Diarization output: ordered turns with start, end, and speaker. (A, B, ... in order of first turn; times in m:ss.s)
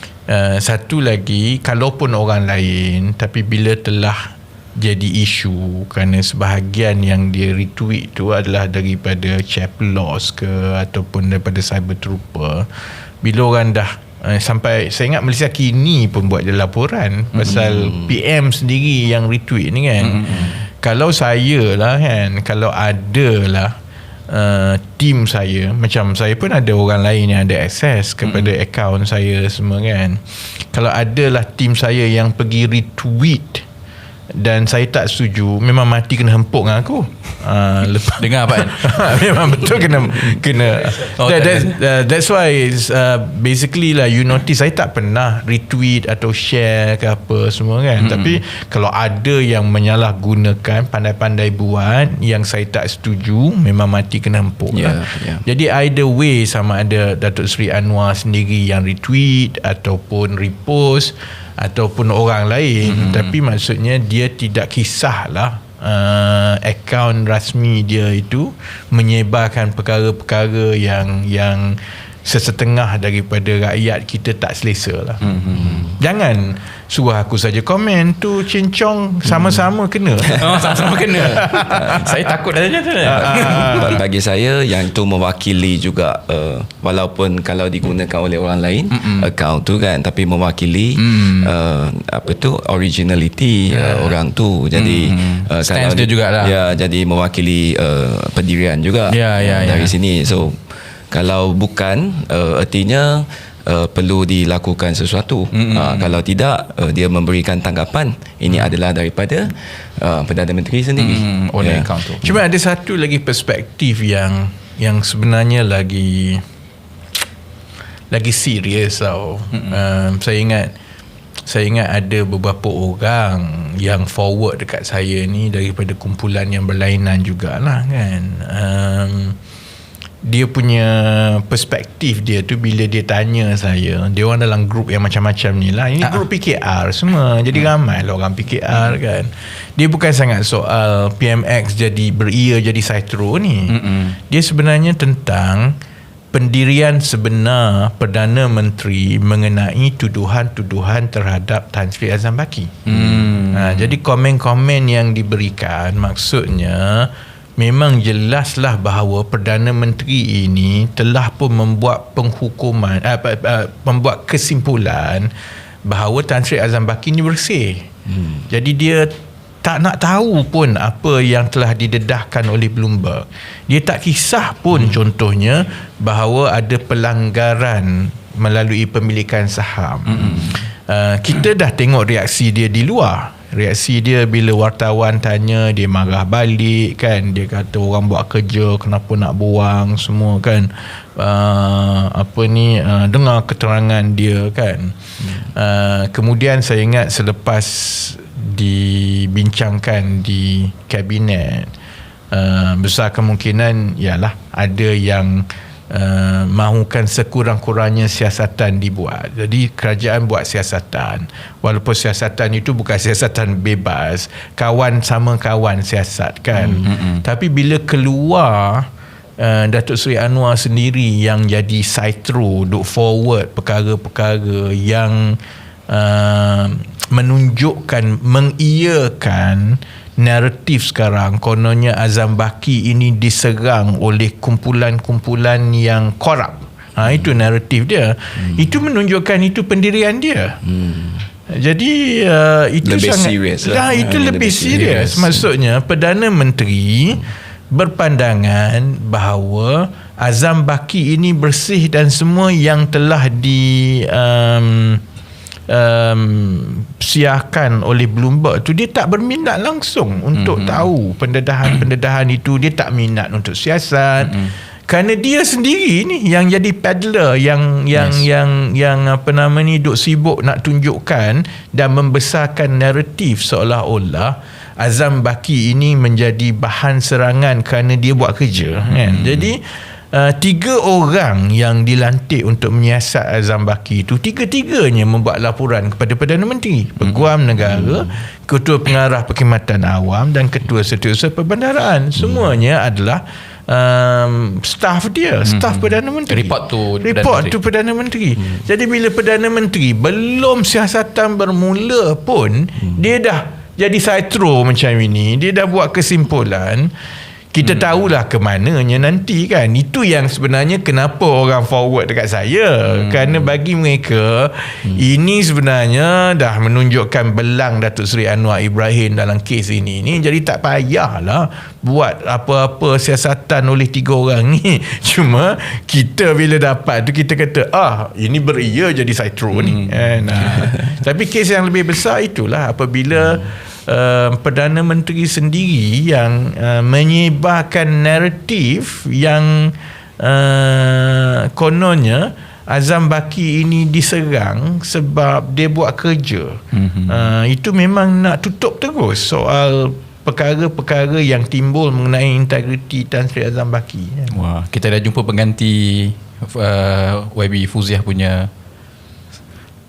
0:00.3-0:23.8 A
0:17.4-0:17.6 B
0:17.8-0:18.1 C
0:20.0-0:20.6 B
0:24.3-0:33.6 A
0:28.2-0:28.5 B
0:34.3-1:22.1 A
0:38.2-0:39.2 B
0:41.0-0:41.7 B
0:48.0-0:48.4 B
0:54.7-0:55.4 C
1:02.9-1:03.3 B
1:15.2-1:15.8 B
1:15.5-1:15.9 C
1:20.3-1:24.0 B
1:21.2-1:22.4 C
1:23.0-1:24.0 A
1:23.0-1:51.9 C
1:28.9-1:29.3 B
1:31.0-1:31.5 B
1:33.7-1:34.2 B
1:34.7-1:36.6 B
1:39.1-1:39.9 B
1:45.5-1:46.1 B
1:51.0-1:52.3 B
1:52.2-1:56.4 A
1:58.1-2:00.7 A
2:01.4-2:09.4 A
2:10.2-2:25.8 A
2:23.7-2:24.2 B
2:26.3-2:32.8 A
2:32.8-2:33.9 B
2:33.5-2:45.3 A
2:45.8-2:47.9 A
2:48.5-3:21.7 A
3:00.0-3:00.7 B
3:22.3-4:00.6 A
3:36.8-3:37.2 B
4:00.7-4:01.2 C
4:01.5-4:15.0 A
4:02.8-4:05.5 C
4:15.7-5:06.9 A
4:20.3-4:20.8 B
4:24.3-4:24.5 B
4:28.0-4:28.2 B
4:47.6-4:48.2 C
4:52.2-4:52.5 C
4:55.4-4:57.6 B
5:07.5-5:54.4 A
5:07.6-5:07.9 B
5:12.9-5:13.5 B
5:29.5-5:30.7 B
5:46.7-5:47.3 B
5:54.3-5:58.5 B